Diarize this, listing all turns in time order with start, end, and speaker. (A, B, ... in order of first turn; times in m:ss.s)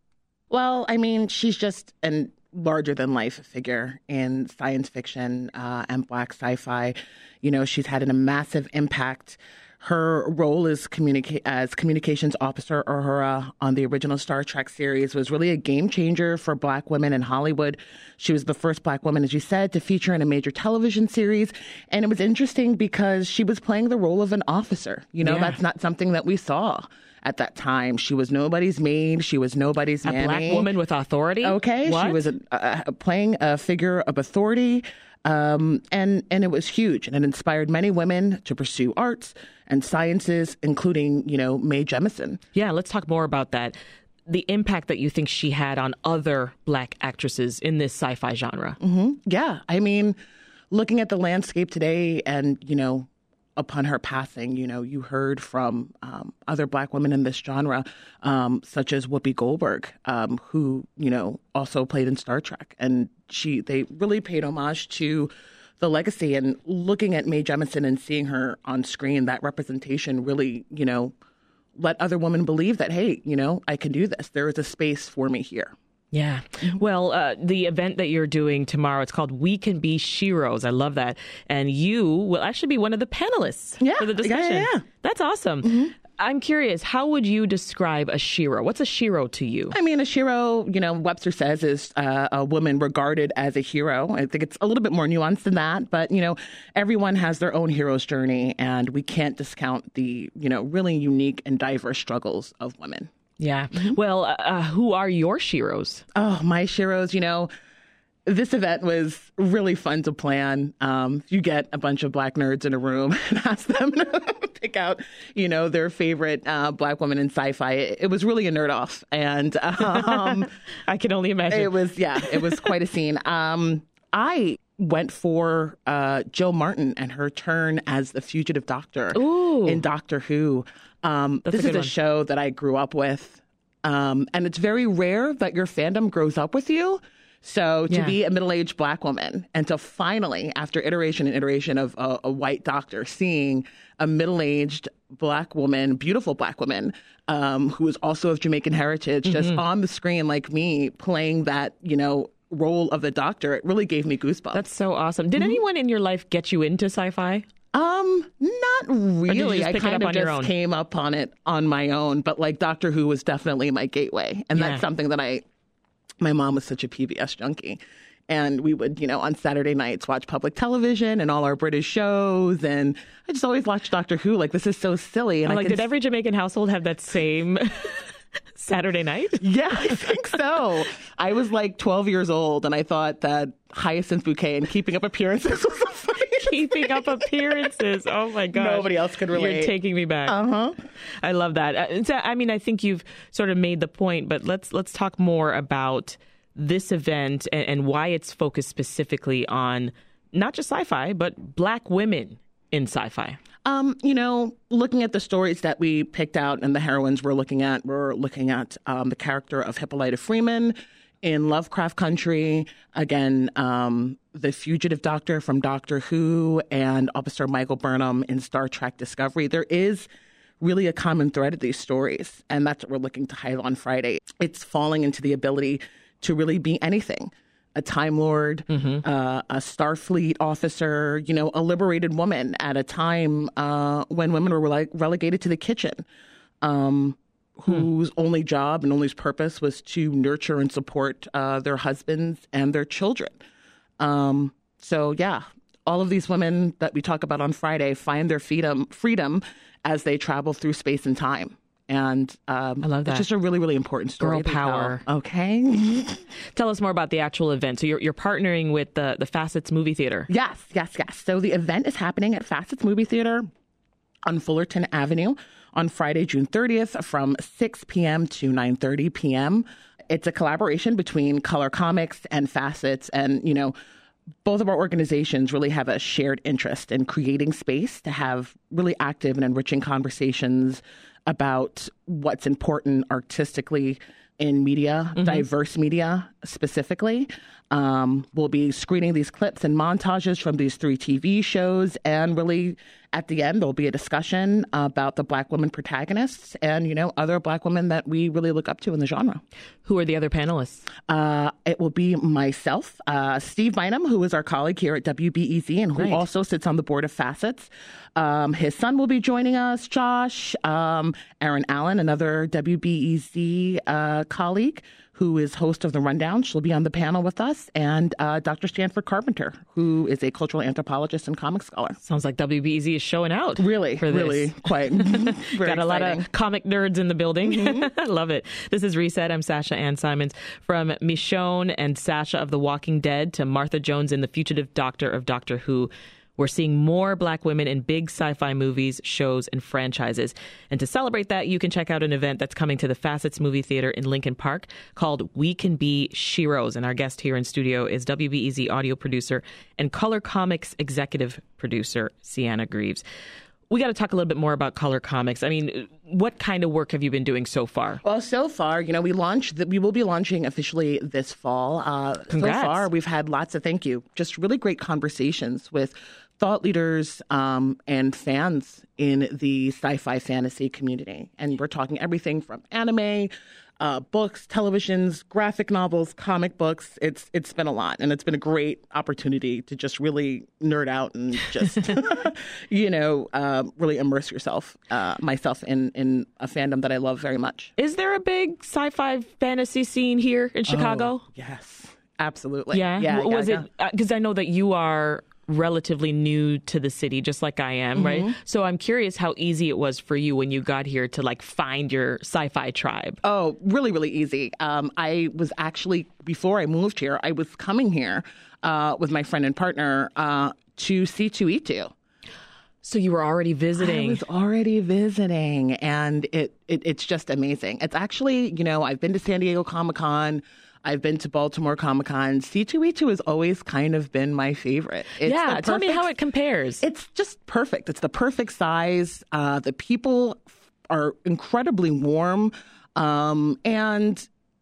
0:00.5-0:30.7 A
0:25.2-0:25.6 B
0:30.0-0:32.2 B
0:31.4-0:42.4 A
0:42.5-0:43.7 B
0:44.3-0:48.8 B
0:48.8-0:50.2 A
0:50.7-1:11.1 A
1:11.8-1:15.7 A
1:16.1-1:29.7 B
1:23.8-1:24.8 A
1:25.6-1:25.9 A
1:29.7-1:43.1 A
1:43.4-1:46.0 B
1:46.1-1:47.5 A
1:48.2-2:00.5 A
1:59.8-2:02.7 B
2:01.5-2:34.6 A
2:09.1-2:09.8 B
2:11.4-2:11.9 B
2:17.9-2:18.1 B
2:29.3-2:29.6 B
2:34.5-2:37.4 B
2:37.7-2:45.4 A
2:39.3-2:40.5 B
2:44.5-2:44.8 B
2:46.2-2:55.8 A
2:55.4-2:58.0 B
2:58.6-2:59.9 B
2:59.4-3:07.7 A
3:06.4-3:10.3 B
3:08.5-3:09.7 A
3:10.2-3:10.8 A
3:11.2-3:23.4 B
3:23.6-3:40.1 A
3:40.6-3:56.0 A
3:48.7-3:49.0 B
3:56.6-4:03.4 A
4:04.0-4:16.2 A
4:12.8-4:13.3 B
4:14.2-4:15.0 B
4:16.5-4:20.3 B
4:20.3-4:23.5 A
4:24.2-4:33.7 A
4:34.4-4:59.4 A
4:45.2-4:45.4 B
4:59.8-5:00.9 B
5:01.1-5:22.0 A
5:06.0-5:06.2 B
5:22.0-5:53.0 B
5:23.6-5:26.2 A
5:27.4-5:27.8 A
5:53.7-5:58.0 B
5:58.0-6:27.7 A
6:02.3-6:02.9 B
6:27.8-6:31.2 B
6:30.7-6:33.6 A
6:32.7-6:43.2 B
6:38.0-6:38.4 A
6:43.2-6:51.9 A
6:52.8-6:54.2 B
6:53.8-7:06.1 A
7:05.2-7:06.8 B
7:06.8-7:14.3 A